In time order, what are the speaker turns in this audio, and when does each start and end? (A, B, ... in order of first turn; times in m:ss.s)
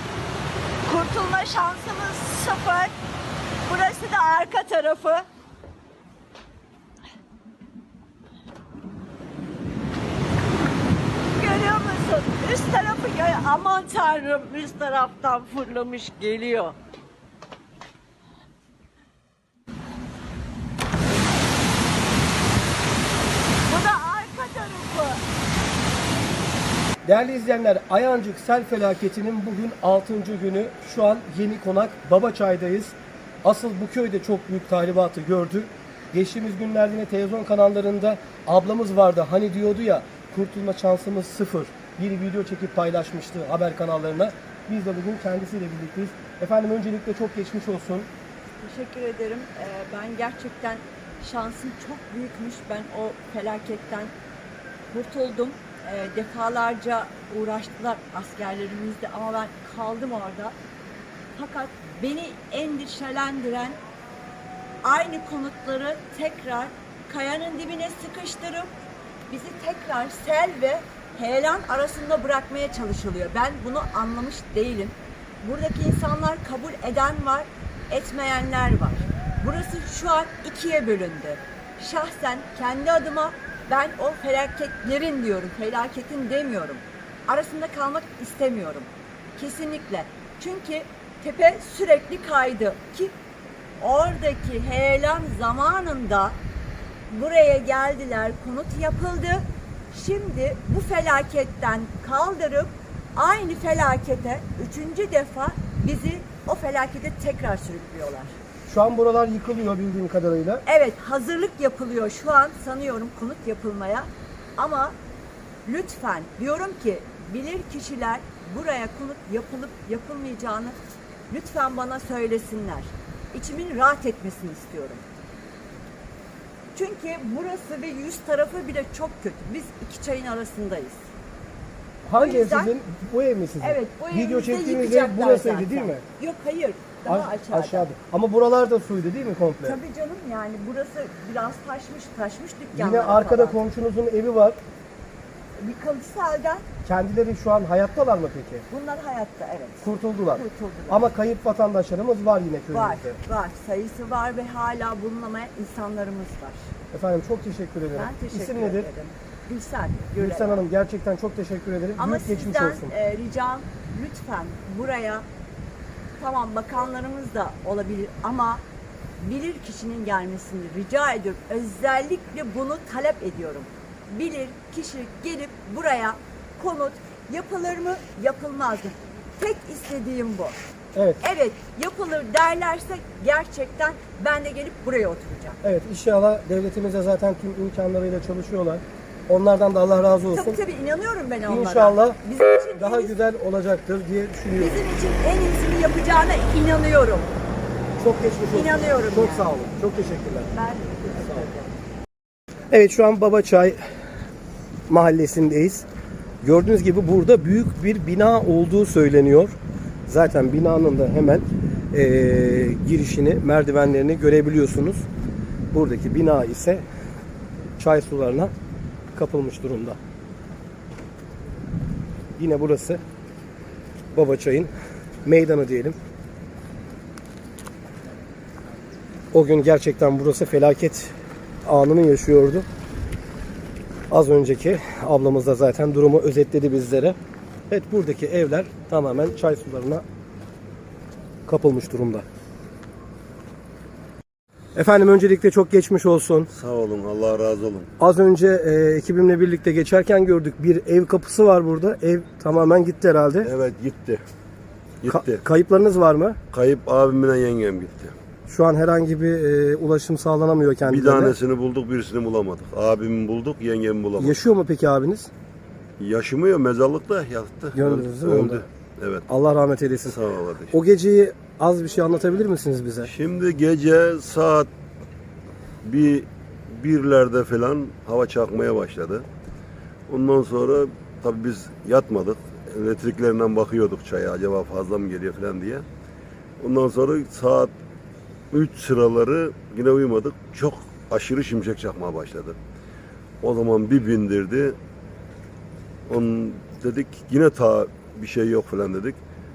0:00.8-0:02.9 A
0:03.6-0:05.3 A
0:11.4-0:16.8 A
0:23.7-0:25.2 A
0:27.0-0:48.1 B
0:48.6-0:54.1 A
0:54.9-1:00.6 A
1:01.4-1:03.8 A
1:04.8-1:08.7 A
1:09.3-1:33.1 A
1:33.8-1:36.4 A
1:37.1-1:48.4 A
1:48.7-1:50.6 B
1:50.7-1:55.0 A
1:55.6-2:00.8 A
2:01.3-2:05.0 A
2:06.7-2:11.0 A
2:12.0-2:16.0 B
2:12.2-2:12.7 A
2:13.6-2:17.9 A
2:17.0-2:19.8 B
2:19.6-2:23.6 A
2:22.7-2:24.6 B
2:25.6-2:26.6 A
2:26.8-2:28.6 B
2:28.7-2:31.1 A
2:29.8-2:33.2 B
2:32.7-2:36.7 A
2:36.9-2:38.9 B
2:37.9-2:40.6 A
2:40.2-2:42.9 B
2:42.0-2:45.3 A
2:46.2-2:48.6 A
2:49.2-3:00.6 A
3:01.0-3:01.2 B
3:01.2-3:05.6 A
3:05.6-3:10.6 B
3:10.3-3:13.1 A
3:11.5-3:12.2 B
3:12.7-3:14.8 B
3:14.6-3:17.3 A
3:18.0-3:20.5 B
3:18.5-3:19.6 A
3:20.5-3:21.7 A
3:21.2-3:21.5 B
3:22.7-3:23.8 B
3:24.9-3:25.8 B
3:26.4-3:29.6 B
3:30.1-3:35.1 B
3:35.7-3:36.8 B
3:37.8-3:38.5 B
3:39.1-3:40.0 B
3:42.4-3:43.0 B
3:44.1-3:44.7 B
3:45.2-3:46.0 B
3:49.3-3:52.7 B
3:54.1-3:57.2 B
3:57.7-4:00.0 B
4:01.5-4:02.3 B
4:04.8-4:06.5 B
4:06.5-4:07.9 C
4:08.0-4:13.5 B
4:13.4-4:14.2 C
4:15.0-4:15.4 C
4:15.1-4:16.4 B
4:16.5-4:18.1 C
4:18.5-4:21.4 B
4:20.8-4:24.4 C
4:24.2-4:25.3 B
4:26.0-4:29.3 C
4:27.8-4:28.7 B
4:29.3-4:30.2 B
4:30.0-4:30.8 C
4:30.7-4:33.1 B
4:33.0-4:34.7 C
4:35.8-4:39.3 C
4:40.1-4:45.9 C
4:46.6-4:47.7 C
4:48.5-4:52.6 C
4:53.4-4:54.8 C
4:56.1-4:59.2 C